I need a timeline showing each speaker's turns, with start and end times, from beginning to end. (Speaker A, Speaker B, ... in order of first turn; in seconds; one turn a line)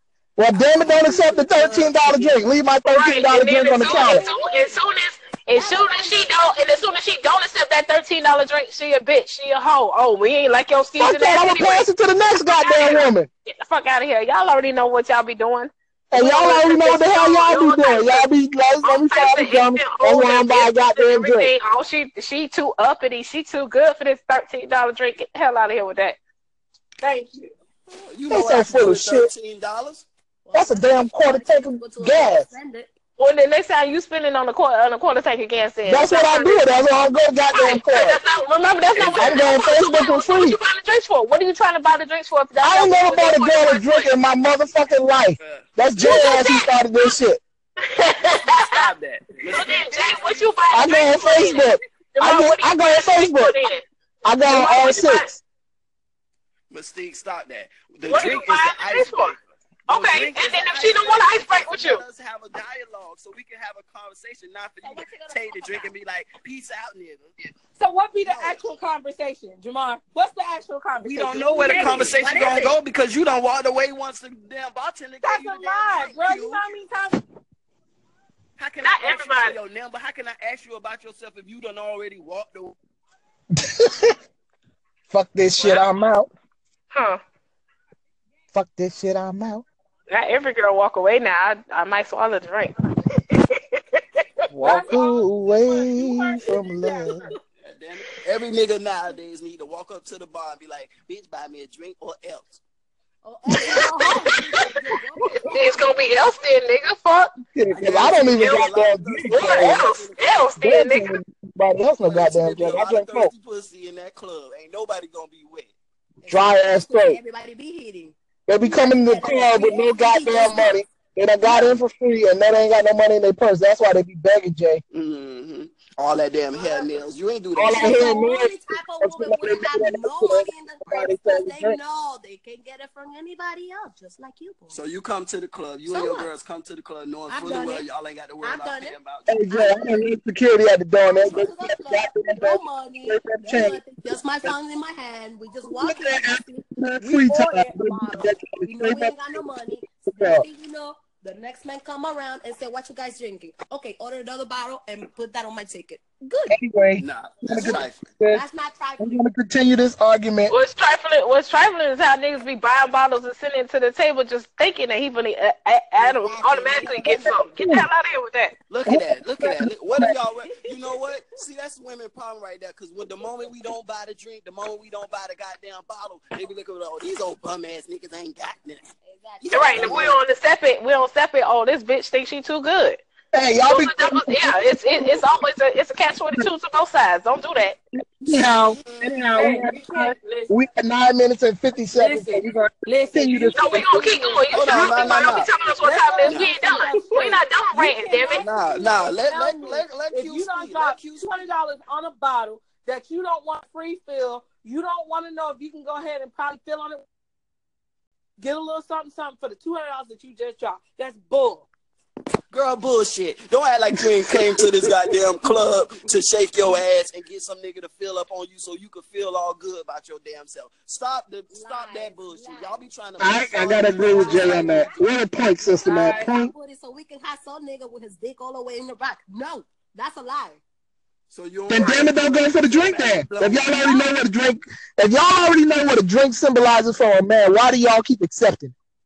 Speaker A: 0.4-4.2
Speaker B: 0.5-2.4
Speaker C: 2.9-11.9
Speaker B: 3.8-4.8
Speaker B: 5.5-6.3
Speaker A: 11.0-13.3
Speaker C: 12.6-26.2
Speaker A: 16.1-21.5
Speaker D: 27.0-27.5
Speaker E: 27.9-30.1
Speaker A: 28.3-29.3
Speaker B: 30.4-32.9
Speaker A: 30.5-32.5
Speaker C: 33.2-36.7
Speaker A: 35.9-38.2
Speaker C: 37.5-44.1
Speaker A: 39.0-40.6
Speaker E: 39.0-39.4
Speaker A: 42.6-47.4
Speaker E: 44.1-44.8
Speaker E: 45.4-45.7
Speaker C: 46.0-46.7
Speaker C: 47.9-48.9
Speaker E: 48.4-50.6
Speaker C: 49.5-53.8
Speaker A: 50.7-53.5
Speaker A: 54.2-55.4
Speaker C: 54.5-55.3
Speaker E: 56.7-67.5
Speaker C: 58.1-59.4
Speaker C: 59.9-62.0
Speaker B: 64.8-65.9
Speaker D: 67.8-72.5
Speaker E: 68.2-68.7
Speaker E: 71.0-76.7
Speaker B: 71.7-72.8
Speaker D: 75.2-77.2
Speaker E: 78.6-82.8
Speaker C: 78.8-79.6
Speaker A: 83.8-84.1
Speaker A: 85.1-86.3
Speaker C: 86.9-87.2
Speaker A: 88.5-89.7
Speaker C: 90.1-94.2
Speaker A: 94.5-97.3
Speaker D: 94.6-97.3
Speaker E: 97.6-102.6
Speaker B: 103.2-105.8
Speaker C: 105.5-107.3
Speaker A: 107.5-109.8
Speaker E: 107.7-110.5
Speaker C: 108.4-111.1
Speaker A: 110.6-113.3
Speaker E: 112.0-115.7
Speaker B: 116.2-120.8
Speaker A: 116.3-117.2
Speaker A: 118.5-124.8
Speaker B: 121.4-121.8
Speaker E: 124.9-128.1
Speaker B: 126.5-127.1
Speaker A: 127.6-131.8
Speaker B: 127.7-134.8
Speaker E: 134.7-139.5
Speaker B: 135.9-136.3
Speaker B: 137.3-137.9
Speaker B: 138.4-139.0
Speaker A: 139.3-143.8
Speaker B: 139.5-140.1
Speaker B: 141.0-156.6
Speaker A: 145.7-149.4
Speaker A: 150.1-150.4
Speaker A: 156.5-158.4
Speaker E: 157.0-158.2
Speaker B: 158.3-159.2
Speaker A: 159.0-160.6
Speaker C: 160.5-168.6
Speaker B: 166.0-167.6
Speaker A: 167.6-167.9
Speaker E: 168.7-178.9
Speaker A: 168.9-170.1
Speaker B: 170.5-171.0
Speaker B: 179.0-180.1
Speaker E: 179.4-180.2
Speaker C: 179.5-183.0
Speaker A: 183.3-185.2
Speaker C: 183.7-187.8
Speaker A: 188.1-194.2
Speaker E: 188.8-189.2
Speaker D: 189.3-190.5
Speaker D: 191.9-194.6
Speaker C: 193.5-198.4
Speaker E: 194.5-195.5
Speaker D: 195.2-207.1
Speaker E: 196.2-196.5
Speaker B: 198.2-199.8
Speaker E: 198.4-201.3
Speaker D: 208.4-211.7
Speaker E: 212.5-224.9
Speaker B: 221.5-230.6
Speaker A: 223.2-226.5
Speaker E: 231.3-234.1
Speaker A: 231.7-238.7